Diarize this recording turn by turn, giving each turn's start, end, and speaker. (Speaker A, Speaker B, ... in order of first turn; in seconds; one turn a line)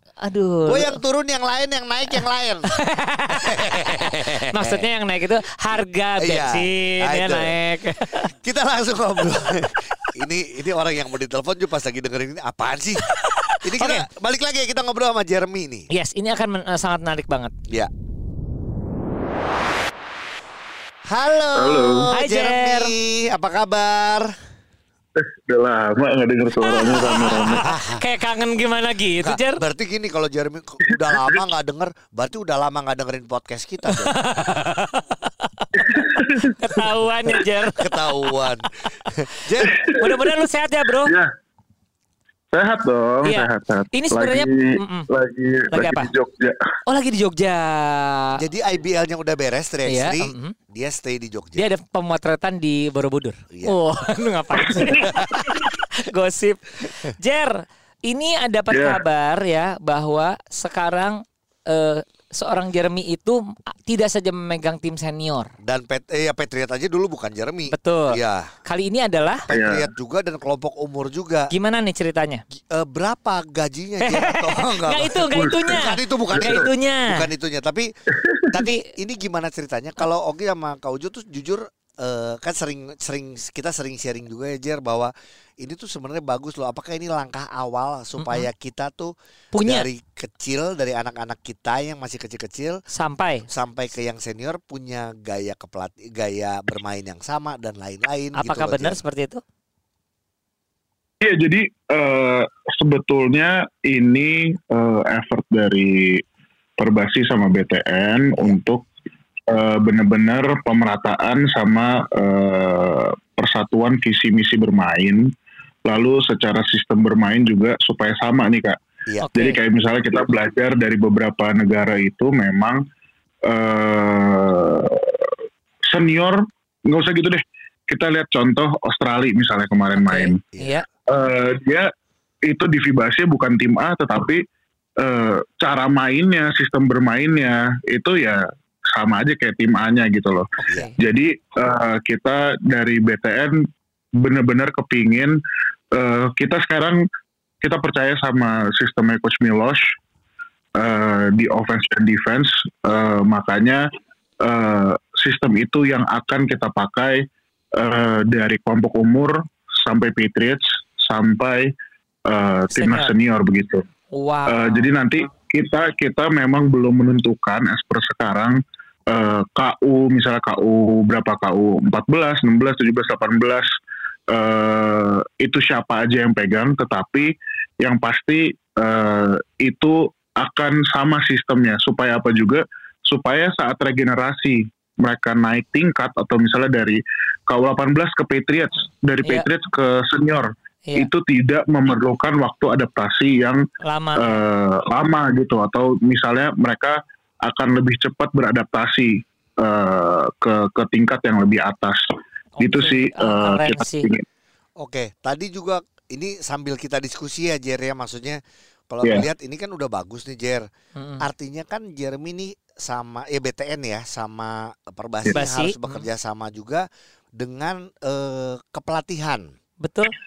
Speaker A: 0.2-1.0
Speaker B: 0.7-2.7
Speaker A: 2.7-8.3
Speaker B: 3.3-4.8
Speaker B: 6.2-7.6
Speaker B: 8.1-13.1
Speaker A: 13.1-14.1
Speaker B: 13.6-15.9
Speaker A: 15.9-17.5
Speaker B: 21.1-24.3
Speaker C: 21.5-22.1
Speaker A: 22.1-22.9
Speaker C: 25.2-27.7
Speaker A: 26.6-29.6
Speaker B: 27.5-28.0
Speaker B: 29.2-34.1
Speaker A: 33.9-35.6
Speaker C: 35.7-36.8
Speaker A: 36.6-37.9
Speaker B: 37.8-39.7
Speaker C: 39.6-40.1
Speaker A: 40.0-41.1
Speaker C: 42.5-46.6
Speaker A: 43.2-45.1
Speaker A: 45.7-46.1
Speaker A: 46.9-48.4
Speaker B: 48.4-51.7
Speaker A: 49.9-50.5
Speaker A: 51.5-57.6
Speaker C: 54.6-55.5
Speaker B: 55.1-55.5
Speaker A: 58.1-65.5
Speaker C: 58.7-59.0
Speaker B: 65.6-68.5
Speaker A: 67.7-69.5
Speaker B: 69.5-71.5
Speaker C: 69.5-69.9
Speaker A: 71.5-72.4
Speaker B: 72.7-77.9
Speaker A: 74.0-77.3
Speaker C: 75.3-75.8
Speaker C: 78.2-78.5
Speaker B: 78.5-92.8
Speaker A: 88.2-88.5
Speaker A: 89.5-89.9
Speaker A: 92.9-93.5
Speaker B: 93.5-99.0
Speaker A: 98.3-99.4
Speaker C: 101.2-106.2
Speaker C: 106.8-108.8
Speaker C: 109.5-115.3
Speaker C: 115.8-118.8
Speaker A: 119.2-119.6
Speaker C: 119.3-122.8
Speaker C: 123.5-125.3
Speaker C: 125.9-130.4
Speaker A: 129.9-130.8
Speaker B: 130.5-130.8
Speaker C: 131.1-131.8
Speaker C: 132.5-134.4
Speaker C: 135.0-138.4
Speaker C: 138.9-140.4
Speaker A: 140.7-140.9
Speaker C: 141.0-143.6
Speaker C: 144.2-145.3
Speaker C: 145.9-146.9
Speaker C: 147.6-149.8
Speaker C: 150.8-153.8
Speaker C: 154.4-157.2
Speaker C: 157.8-161.7
Speaker C: 162.3-163.8
Speaker A: 162.7-163.1
Speaker A: 164.1-164.9
Speaker C: 164.5-168.6
Speaker C: 169.1-173.7
Speaker C: 174.3-177.3
Speaker C: 177.8-193.6
Speaker A: 190.8-191.1
Speaker A: 193.8-194.4
Speaker C: 194.2-202.0
Speaker A: 202.6-204.1
Speaker C: 202.6-204.2
Speaker B: 204.8-210.6
Speaker A: 210.9-211.2
Speaker B: 211.2-216.8
Speaker A: 215.3-216.1
Speaker B: 217.4-219.5
Speaker A: 219.8-220.1